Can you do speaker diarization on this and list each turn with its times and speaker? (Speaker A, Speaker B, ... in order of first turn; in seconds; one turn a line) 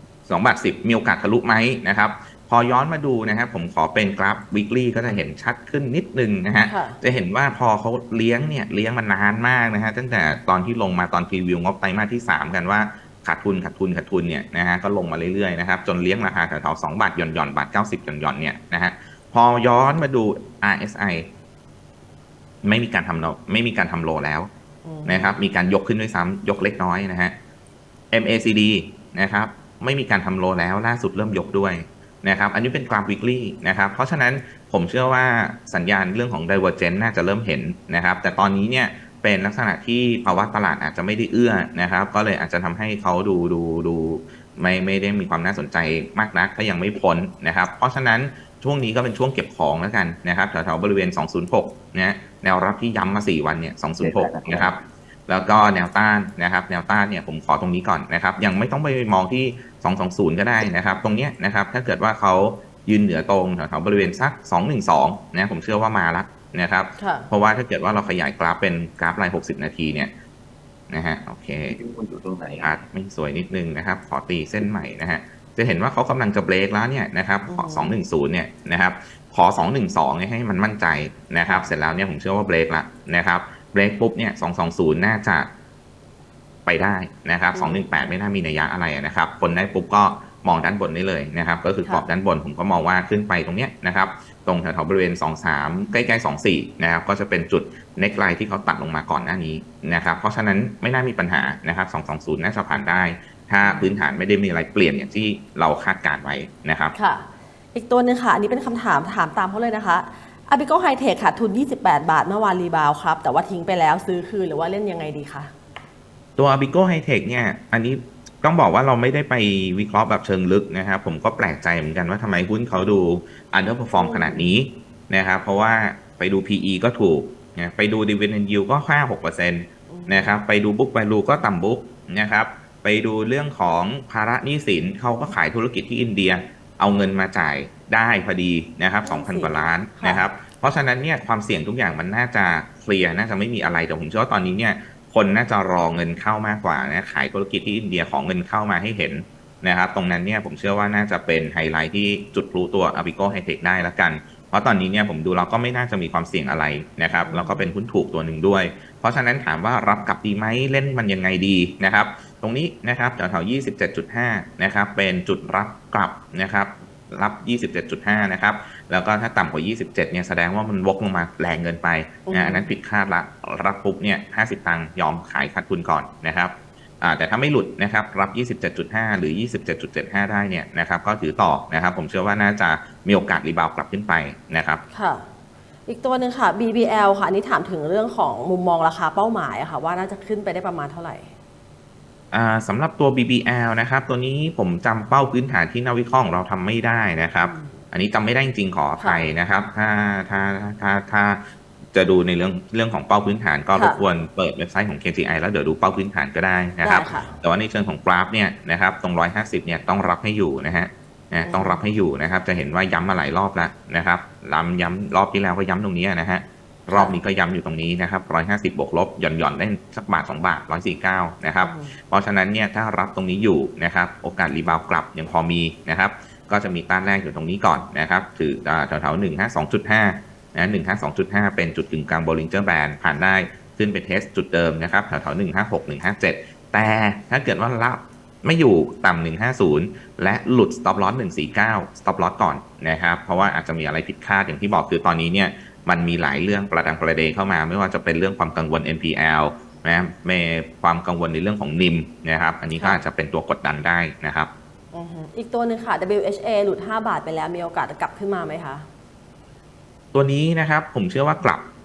Speaker A: 0.3-21.3
Speaker B: 6.7-7.0
Speaker A: 22.6-24.5
Speaker B: 24.8-25.4
Speaker A: 25.1-27.4
Speaker A: 28.1-70.1
Speaker C: 54.0-54.8
Speaker B: 67.0-67.3
Speaker A: 70.9-71.8
Speaker C: 71.7-72.8
Speaker A: 72.6-85.5
Speaker B: 77.5-78.0
Speaker A: 86.7-107.0
Speaker B: 87.5-87.9
Speaker B: 103.6-104.0
Speaker B: 107.0-115.5
Speaker A: 116.4-184.8
Speaker B: 124.0-124.6
Speaker B: 129.9-130.4
Speaker B: 139.0-140.2
Speaker B: 157.3-157.7
Speaker B: 172.3-172.7
Speaker B: 184.9-185.3
Speaker B: 185.9-191.3
Speaker A: 192.3-254.5
Speaker B: 197.2-197.8
Speaker B: 199.0-199.3
Speaker B: 203.7-204.0
Speaker B: 206.8-207.3
Speaker B: 211.4-211.8
Speaker B: 216.9-217.2
Speaker B: 221.6-222.0
Speaker B: 254.9-258.9
Speaker A: 260.1-261.7